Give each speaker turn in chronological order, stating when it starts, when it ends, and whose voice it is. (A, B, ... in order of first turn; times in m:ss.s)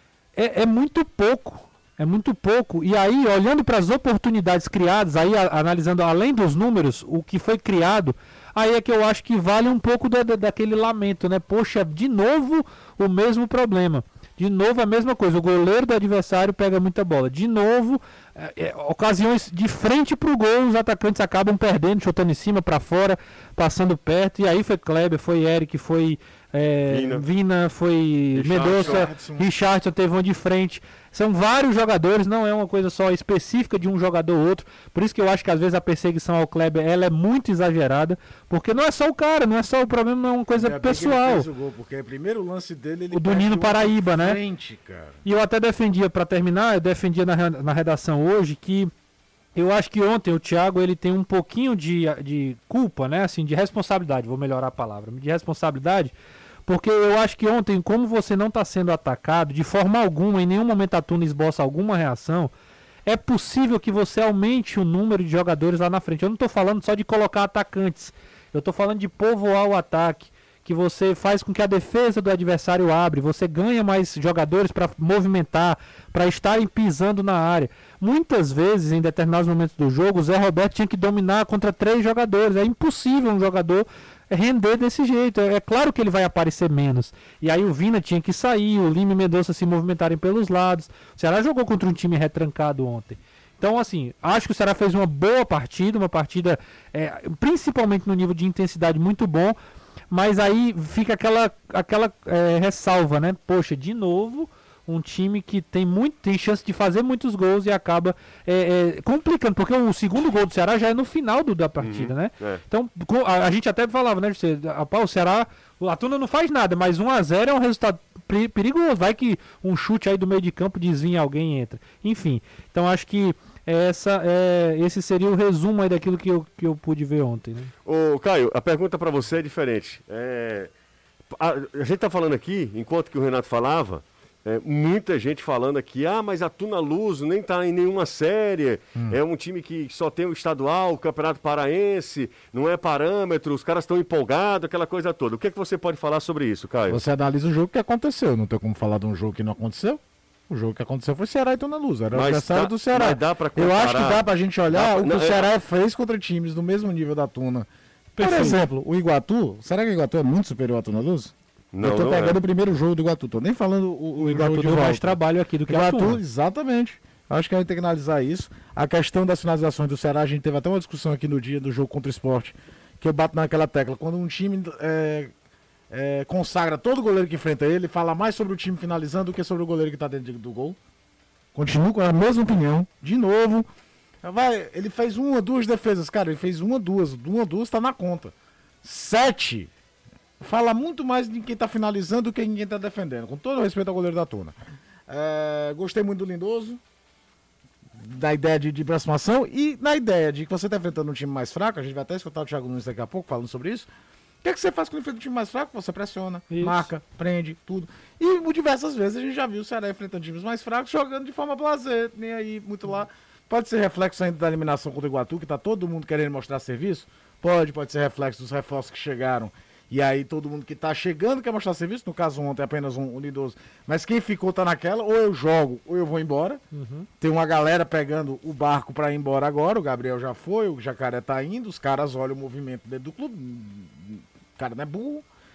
0:00.4-0:41.5 A
0:26.9-0:27.2 B
0:28.3-0:29.1 B
0:28.6-0:29.5 C
0:40.5-0:45.2 C
0:43.1-0:44.4 A
0:45.2-0:48.9 A
0:49.5-0:56.1 A
0:56.7-1:02.5 A
1:03.0-1:39.6 A
1:40.1-2:07.7 A
1:51.8-1:52.6 B
2:07.8-2:10.7 B
2:11.3-2:27.0 B
2:26.9-2:55.3 C
2:32.1-2:35.5 B
2:38.2-2:38.7 A
2:41.7-2:42.4 B
2:44.2-2:46.2 A
2:55.9-3:00.8 C
3:01.5-3:03.7 C
3:04.2-3:09.7 C
3:10.4-3:14.5 C
3:15.1-3:16.8 C
3:17.9-3:23.9 C
3:24.4-3:46.6 C
3:26.5-3:26.9 A
3:46.7-3:47.1 A
3:47.2-3:55.2 C